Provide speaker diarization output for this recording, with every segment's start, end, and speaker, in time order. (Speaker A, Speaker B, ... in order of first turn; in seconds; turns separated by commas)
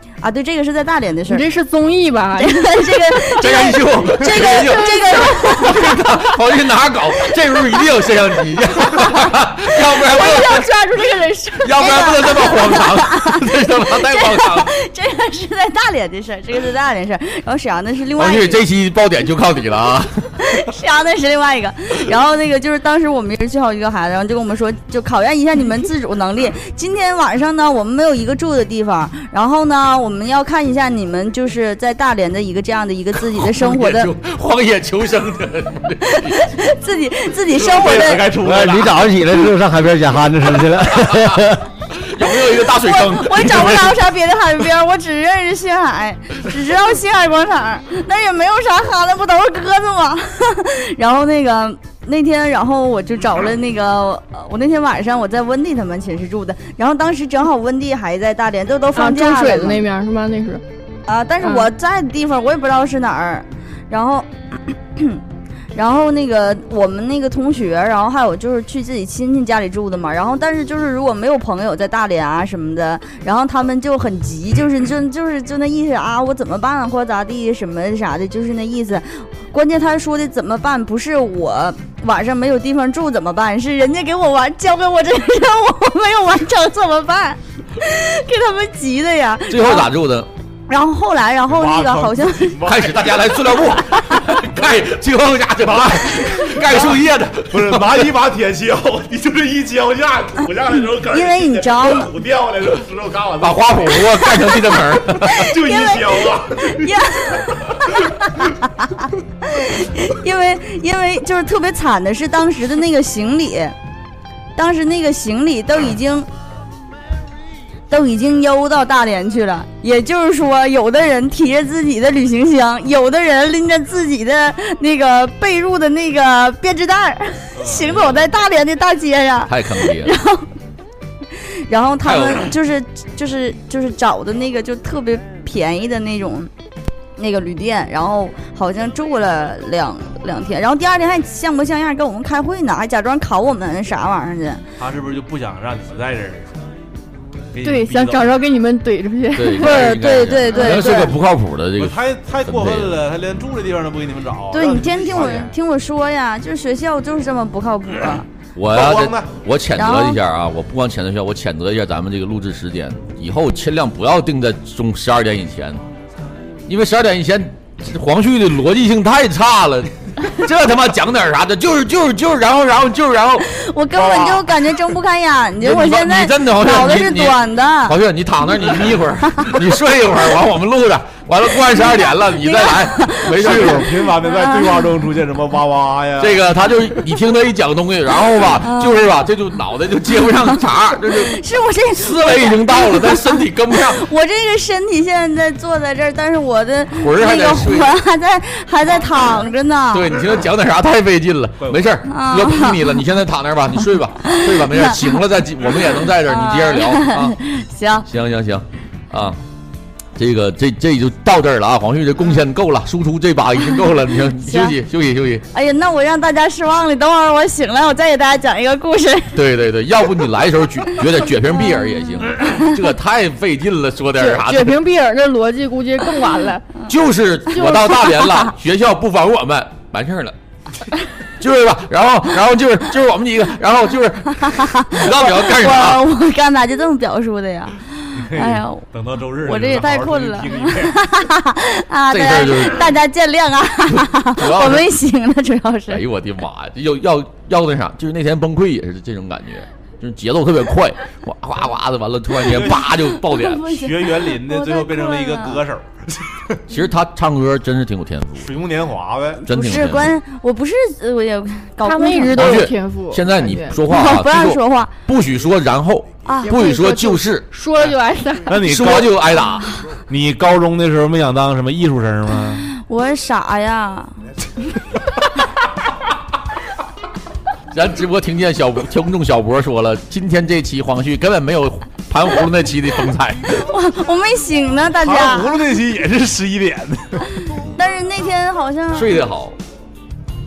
Speaker A: 0.2-1.5, Speaker B: 1.3-3.3, Speaker A: 2.4-6.2, Speaker C: 3.4-10.7, Speaker B: 10.0-11.7, Speaker A: 11.6-18.6, Speaker C: 11.6-14.7, Speaker C: 18.2-20.3, Speaker A: 20.4-34.1, Speaker C: 33.4-36.4, Speaker A: 36.1-38.3, Speaker D: 37.5-39.1, Speaker E: 38.4-41.7, Speaker C: 41.0-41.5, Speaker C: 42.0-44.0, Speaker A: 42.5-59.8, Speaker B: 58.9-60.6, Speaker A: 61.1-65.2, Speaker B: 61.4-61.7, Speaker A: 65.7-89.9, Speaker C: 89.5-90.3, Speaker A: 90.7-92.6, Speaker D: 91.5-93.8, Speaker C: 92.7-98.1, Speaker D: 94.4-94.7, Speaker D: 95.6-97.0, Speaker D: 97.5-104.0, Speaker A: 101.1-102.1, Speaker C: 103.4-105.5, Speaker A: 104.1-113.8, Speaker D: 105.3-107.0, Speaker A: 114.6-116.3, Speaker A: 117.9-130.5, Speaker D: 127.5-128.3, Speaker C: 129.5-130.1, Speaker A: 131.7-136.5, Speaker C: 132.0-132.5, Speaker A: 137.2-144.6, Speaker D: 144.8-146.5, Speaker D: 147.5-148.4, Speaker B: 147.6-149.9, Speaker C: 149.3-153.0, Speaker A: 149.6-151.2, Speaker B: 150.5-150.8, Speaker D: 151.8-155.5, Speaker A: 154.5-158.3, Speaker C: 158.6-165.8, Speaker D: 158.7-159.3, Speaker A: 159.8-160.2, Speaker C: 166.7-173.5, Speaker A: 173.4-178.0, Speaker D: 173.9-174.5, Speaker C: 175.6-183.9, Speaker A: 182.4-184.9, Speaker D: 183.3-186.4, Speaker C: 186.2-191.4, Speaker A: 188.6-189.1, Speaker A: 191.1-200.1, Speaker C: 192.0-194.0, Speaker C: 197.0-198.0, Speaker C: 199.9-207.4, Speaker D: 201.6-201.9, Speaker A: 202.1-202.8, Speaker A: 204.3-204.9, Speaker A: 206.2-208.1, Speaker C: 208.1-209.4, Speaker C: 210.2-215.4, Speaker A: 214.5-214.7, Speaker A: 215.5-219.4, Speaker C: 219.3-224.8, Speaker B: 224.2-226.8, Speaker C: 226.9-230.3, Speaker B: 227.5-228.5, Speaker C: 231.4-236.0, Speaker A: 234.5-238.8, Speaker D: 238.1-241.0, Speaker A: 239.4-246.0, Speaker C: 242.1-242.9, Speaker C: 243.9-244.9, Speaker C: 245.9-253.7, Speaker D: 252.4-252.8, Speaker A: 253.0-255.6, Speaker D: 253.7-256.6, Speaker C: 256.7-258.5, Speaker D: 258.4-259.4, Speaker A: 259.4-262.6, Speaker C: 259.5-260.2, Speaker B: 261.8-263.8, Speaker C: 262.4-267.5, Speaker A: 263.9-264.9, Speaker A: 266.3-266.5, Speaker B: 266.4-268.6, Speaker D: 268.5-269.2, Speaker C: 268.6-269.7, Speaker D: 270.1-272.6, Speaker A: 272.8-274.1, Speaker C: 277.7-283.6, Speaker A: 283.5-285.6, Speaker D: 285.0-287.3, Speaker A: 287.7-289.2, Speaker C: 288.9-289.6